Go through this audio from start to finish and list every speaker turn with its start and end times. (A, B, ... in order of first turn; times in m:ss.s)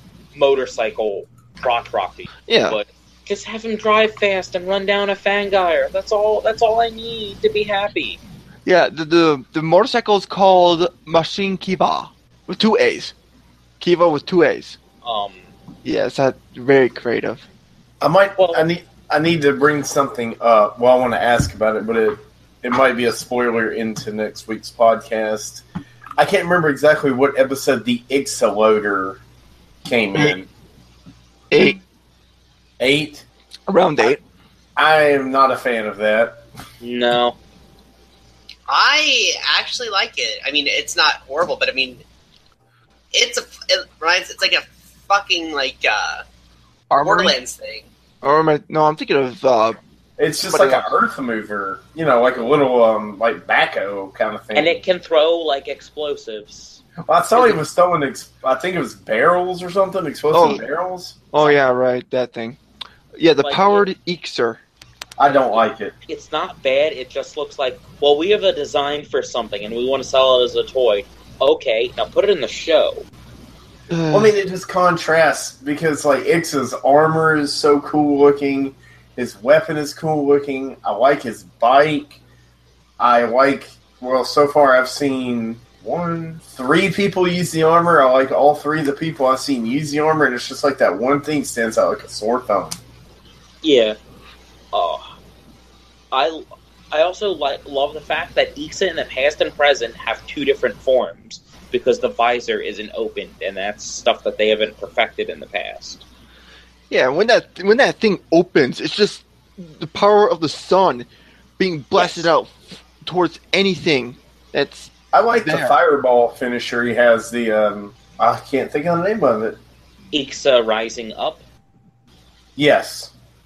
0:00.3-0:08.2 A
0:02.5-0:02.8 B
0:08.6-0:13.1 B
0:13.8-0:14.8 B
0:15.0-0:15.5 A
0:15.8-0:17.5 B
0:18.0-0:25.6 C
0:18.4-0:18.6 A
0:26.2-0:29.2 C
0:29.8-0:30.5 C
0:31.5-0:31.8 B
0:32.8-0:33.2 C
0:33.7-0:34.2 B
0:34.8-0:36.4 C
0:36.8-0:37.4 A
0:38.7-0:42.0 D
0:43.1-0:46.2 D
0:46.9-0:47.4 B
0:47.0-0:47.9 D
0:48.2-0:49.8 B
0:50.2-0:54.8 C
0:50.5-0:50.8 B
0:54.5-0:56.8 A
0:57.1-1:01.2 C
0:57.3-0:57.6 A
1:00.3-1:00.6 B
1:01.3-1:02.6 B
1:03.1-1:04.6 B
1:03.4-1:03.9 A
1:05.2-1:05.9 C
1:05.2-1:13.1 A
1:13.9-1:14.3 B
1:14.1-1:22.2 C
1:23.0-1:32.8 C
1:33.6-1:34.0 A
1:34.7-1:35.1 A
1:36.1-1:46.0 A
1:46.9-1:55.8 B
1:52.0-1:52.3 A
1:55.1-1:59.6 C
2:00.1-2:01.4 A
2:02.6-2:03.1 C